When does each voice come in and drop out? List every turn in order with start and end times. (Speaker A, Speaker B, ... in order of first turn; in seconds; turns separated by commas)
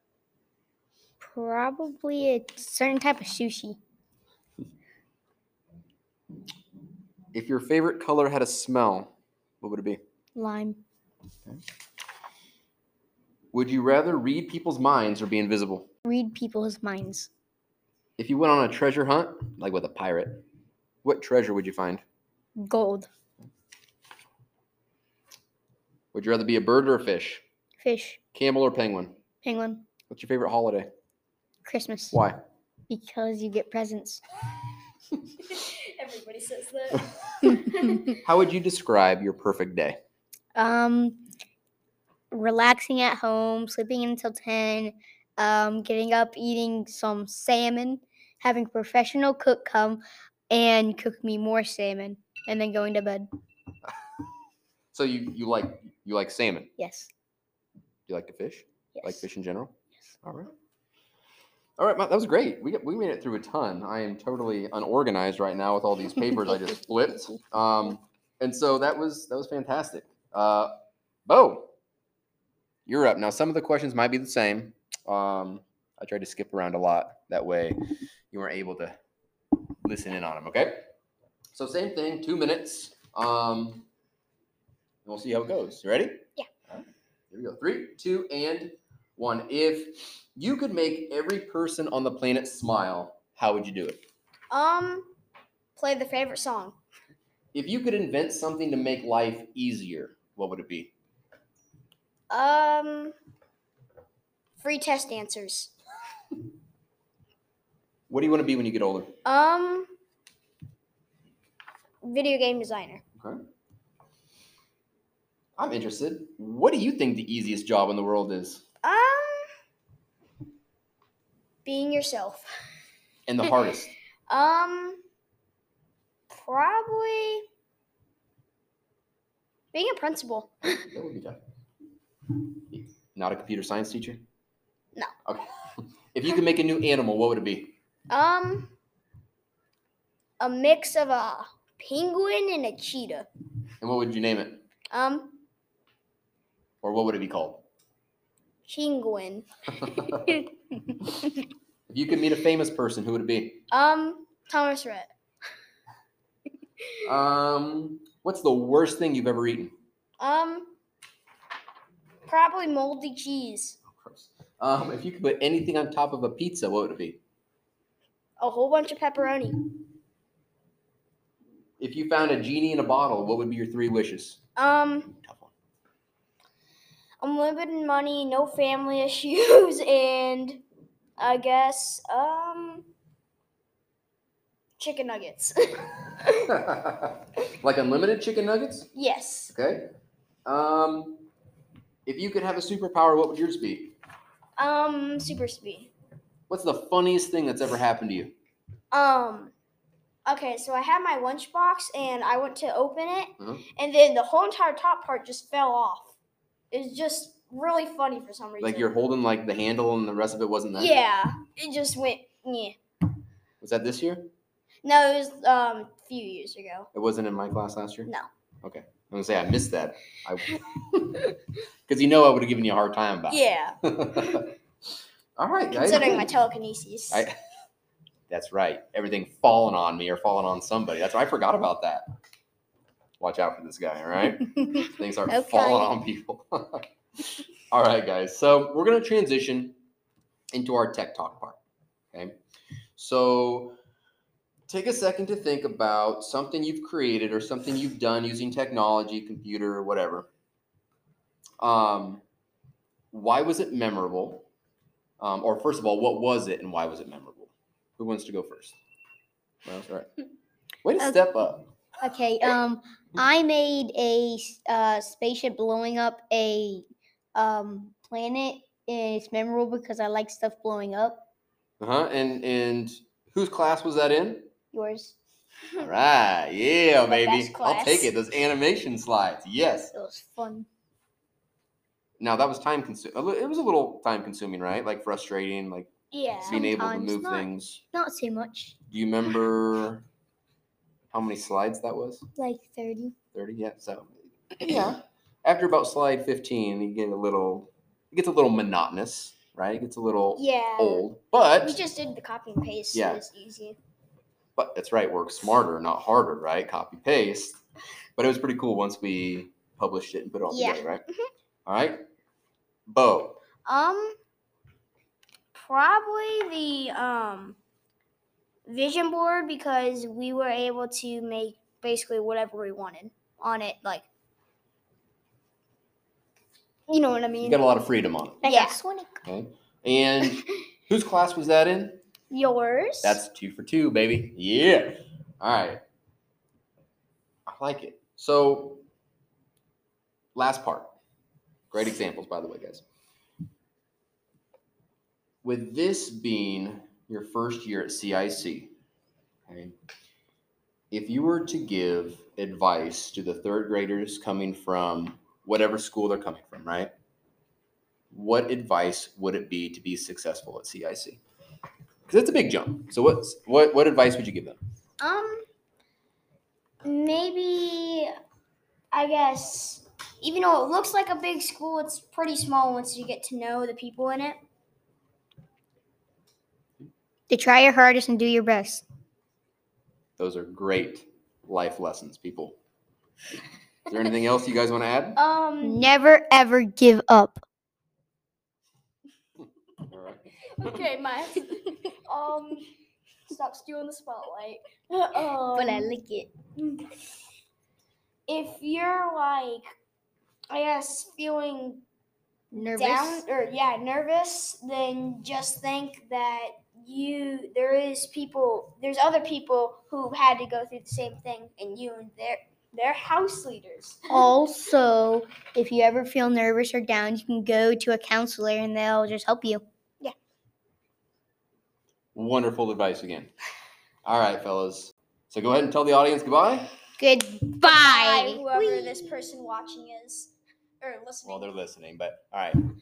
Speaker A: 1.2-3.8, Speaker B: 7.3-10.0, Speaker A: 10.3-10.8, Speaker B: 13.5-15.9, Speaker A: 16.0-17.3, Speaker B: 18.2-20.4, Speaker B: 21.0-22.0, Speaker A: 22.6-23.1, Speaker B: 26.1-27.4, Speaker A: 27.8-28.2, Speaker B: 28.3-29.1, Speaker A: 29.4-29.9, Speaker B: 30.1-30.9, Speaker A: 31.6-32.2, Speaker B: 32.1-32.4, Speaker A: 32.9-34.2, Speaker C: 35.4-38.2, Speaker B: 38.2-40.0, Speaker A: 40.5-41.2, Speaker A: 42.3-53.3, Speaker B: 54.9-56.7, Speaker A: 56.8-57.1, Speaker B: 58.1-60.5, Speaker A: 58.9-59.3, Speaker B: 61.8-70.7, Speaker B: 71.3-71.7, Speaker B: 72.8-77.8, Speaker B: 78.3-79.0, Speaker B: 79.8-80.8, Speaker B: 81.5-83.9, Speaker B: 85.0-94.0, Speaker C: 94.5-95.1, Speaker C: 95.8-96.8, Speaker B: 97.5-100.9, Speaker C: 102.3-103.1, Speaker C: 104.6-105.7, Speaker B: 108.1-109.1, Speaker C: 109.2-109.9, Speaker C: 112.0-113.0, Speaker B: 115.6-118.6, Speaker C: 118.8-119.5, Speaker C: 121.6-122.5, Speaker B: 123.3-123.9, Speaker C: 124.3-125.0, Speaker C: 126.3-127.5, Speaker C: 129.7-130.8, Speaker B: 130.8-131.4, Speaker B: 132.4-134.2, Speaker B: 136.1-137.7, Speaker C: 138.1-138.7, Speaker C: 140.4-143.3, Speaker B: 143.8-144.6, Speaker C: 144.9-145.4, Speaker B: 146.8-147.6, Speaker C: 148.7-150.0, Speaker B: 149.8-150.4, Speaker B: 151.9-153.6, Speaker C: 153.7-155.1, Speaker B: 157.0-159.7, Speaker C: 160.2-160.7, Speaker C: 162.2-163.8, Speaker B: 163.9-167.2, Speaker C: 168.4-169.7, Speaker B: 171.8-174.4, Speaker C: 174.6-175.1, Speaker B: 175.1-175.5, Speaker C: 177.2-180.6, Speaker C: 181.2-182.9, Speaker C: 184.8-186.5, Speaker B: 186.5-188.9, Speaker C: 188.9-189.5, Speaker B: 189.5-189.9, Speaker B: 190.4-191.2, Speaker B: 192.1-193.9, Speaker C: 194.6-195.9, Speaker B: 196.5-198.3, Speaker C: 198.9-199.5, Speaker C: 200.2-206.1, Speaker B: 203.4-203.6, Speaker C: 206.7-208.9, Speaker B: 208.6-211.0, Speaker C: 210.7-212.8, Speaker B: 213.6-214.3, Speaker C: 214.8-216.9, Speaker B: 216.9-218.1, Speaker B: 218.6-221.3, Speaker B: 221.9-224.5, Speaker C: 223.3-223.8, Speaker B: 225.4-226.3, Speaker C: 225.7-227.2, Speaker B: 228.3-232.1, Speaker B: 233.2-239.8, Speaker A: 235.3-235.9, Speaker B: 240.5-241.6, Speaker B: 243.0-243.8, Speaker B: 244.7-250.3, Speaker B: 251.6-252.2, Speaker B: 253.1-254.4, Speaker B: 255.2-258.8, Speaker B: 259.6-260.1, Speaker B: 260.8-261.7, Speaker A: 261.0-261.2, Speaker A: 262.0-271.2, Speaker B: 271.8-274.5, Speaker A: 274.7-275.2, Speaker B: 275.8-279.9, Speaker C: 277.0-278.1, Speaker A: 279.9-280.7, Speaker B: 282.2-285.9, Speaker C: 286.1-286.7, Speaker A: 286.4-288.8, Speaker B: 286.4-287.8, Speaker B: 288.9-290.0, Speaker B: 291.1-292.2, Speaker A: 292.4-293.1, Speaker B: 293.3-301.8, Speaker C: 300.4-301.1, Speaker C: 301.6-303.8, Speaker B: 302.9-303.2, Speaker B: 304.6-307.6, Speaker B: 308.2-311.0, Speaker C: 310.5-311.3, Speaker B: 311.6-312.0, Speaker B: 312.9-313.4, Speaker C: 313.6-314.2, Speaker C: 315.5-317.6, Speaker C: 318.6-324.1, Speaker C: 326.9-327.6, Speaker B: 327.4-328.5, Speaker A: 328.4-329.2, Speaker C: 328.4-328.8, Speaker B: 329.2-332.0, Speaker C: 332.3-333.2, Speaker B: 333.0-335.8, Speaker B: 337.5-338.8, Speaker B: 340.3-340.9, Speaker B: 341.7-342.8, Speaker B: 345.4-348.7, Speaker B: 349.5-349.7, Speaker B: 350.9-356.9, Speaker B: 358.1-361.2, Speaker B: 362.1-364.6, Speaker C: 365.0-365.5, Speaker C: 366.8-368.1, Speaker C: 368.9-374.4, Speaker A: 377.3-378.8, Speaker B: 380.2-382.6, Speaker B: 383.9-385.2, Speaker C: 385.1-385.9, Speaker A: 385.6-387.4, Speaker B: 389.8-390.8, Speaker C: 390.5-392.7, Speaker C: 393.3-395.9, Speaker A: 395.5-396.3, Speaker C: 396.6-397.0, Speaker C: 398.3-399.7, Speaker C: 400.5-401.8, Speaker A: 402.5-403.2, Speaker C: 402.7-414.4, Speaker A: 414.1-419.6, Speaker B: 422.1-423.3, Speaker B: 424.0-426.7, Speaker A: 427.0-429.0, Speaker C: 427.6-431.5, Speaker B: 431.2-432.6